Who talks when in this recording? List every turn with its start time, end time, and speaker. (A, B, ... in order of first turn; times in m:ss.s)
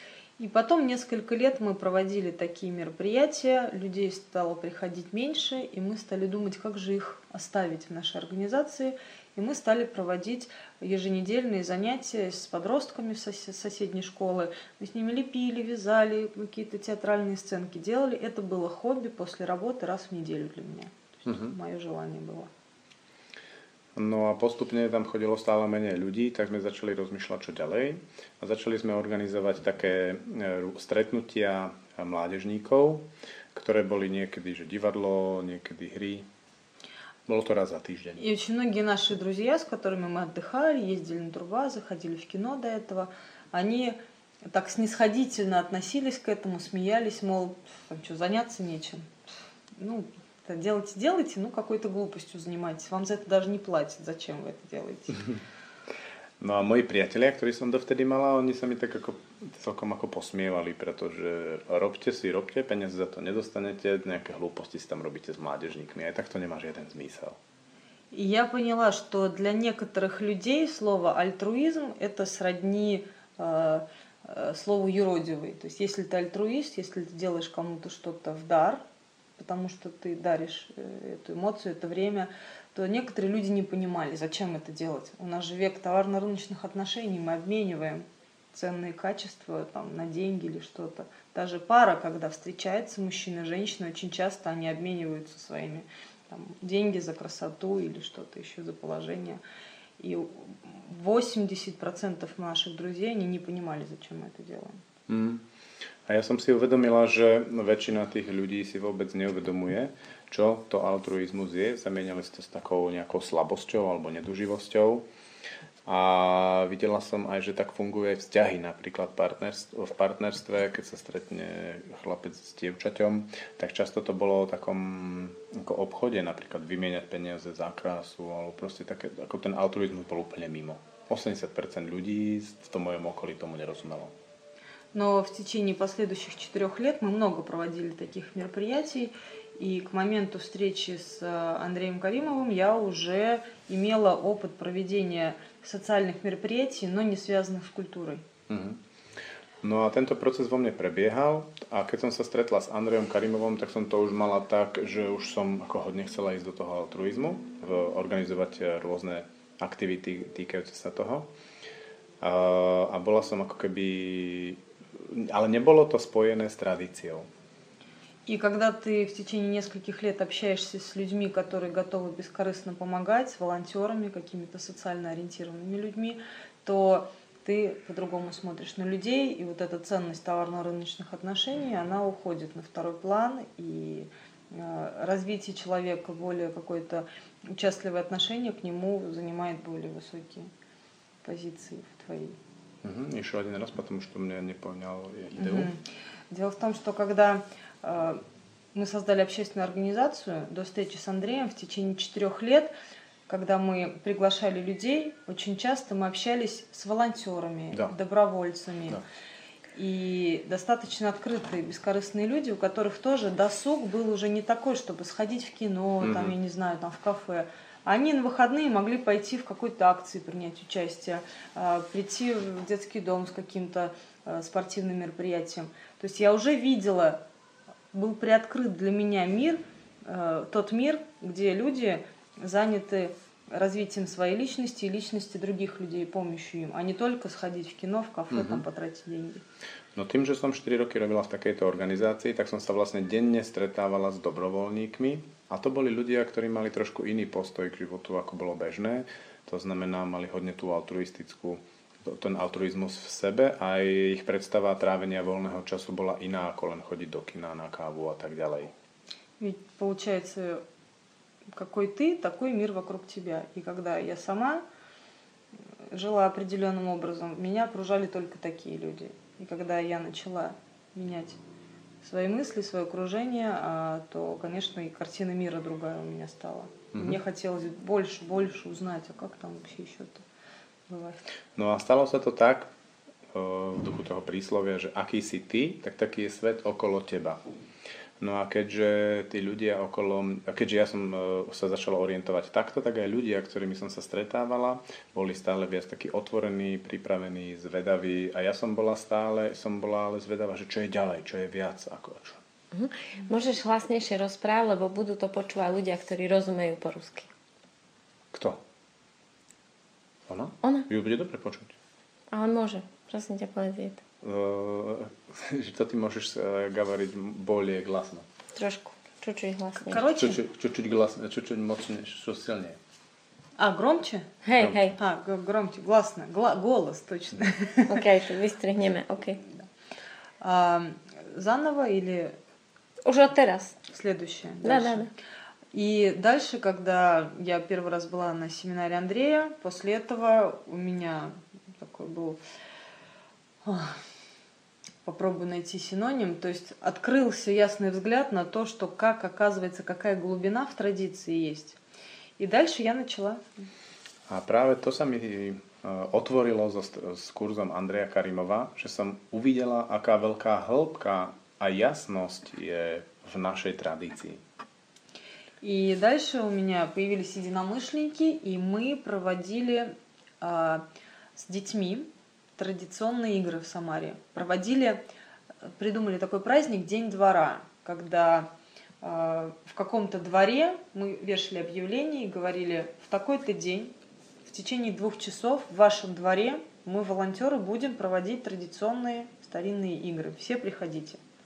0:00.4-0:22.5 A
0:21.3-0:21.5 B
0:24.0-0:36.3 B
0:37.3-0:38.2 B
0:38.2-0:49.1 A
0:49.8-0:55.3 A
0:56.4-1:07.4 B
1:08.1-1:18.8 A
1:19.4-1:39.4 A
1:40.0-1:44.8 A
1:45.1-1:45.4 B
1:46.1-1:55.0 B
1:55.8-2:14.1 B
2:14.9-2:28.3 A
2:28.5-2:28.8 B
2:29.6-2:41.3 B
2:42.2-2:47.3 B
2:48.3-3:10.5 A
3:11.2-3:12.4 A
3:12.8-3:15.7 B
3:15.4-3:18.2 A
3:18.7-3:22.7 A
3:23.3-3:29.0 A
3:29.8-3:47.2 A
3:36.0-3:36.4 B
3:47.9-3:59.4 A
3:58.3-3:58.6 B
4:00.0-4:18.7 B
4:19.4-4:20.6 A
4:21.5-4:24.6 A
4:25.9-4:31.4 A
4:32.0-4:40.2 A
4:36.9-4:37.2 B
4:40.9-4:41.2 A
4:41.6-4:42.7 B
4:43.3-4:47.4 B
4:48.2-5:02.4 B
5:02.7-5:07.3 C
5:08.3-5:08.6 B
5:10.3-5:11.8 B
5:10.6-5:10.9 C
5:12.3-5:14.0 C
5:14.2-5:18.3 B
5:18.6-5:20.2 C
5:19.8-5:20.4 A
5:20.2-5:22.8 B
5:23.6-5:24.3 A
5:24.4-5:25.0 C
5:24.6-5:24.9 B
5:25.0-5:28.0 A
5:27.9-5:29.4 C
5:30.4-5:32.4 A
5:33.0-5:33.8 C
5:33.9-5:35.1 A
5:34.6-5:35.1 C
5:35.7-5:42.4 A
5:43.6-5:44.0 A
5:45.0-5:51.8 A
5:52.4-5:53.7 A
5:54.3-6:04.4 B
6:05.6-6:10.8 A
6:11.4-6:15.0 A
6:15.7-6:18.5 A
6:19.0-6:23.9 A
6:24.5-6:31.2 A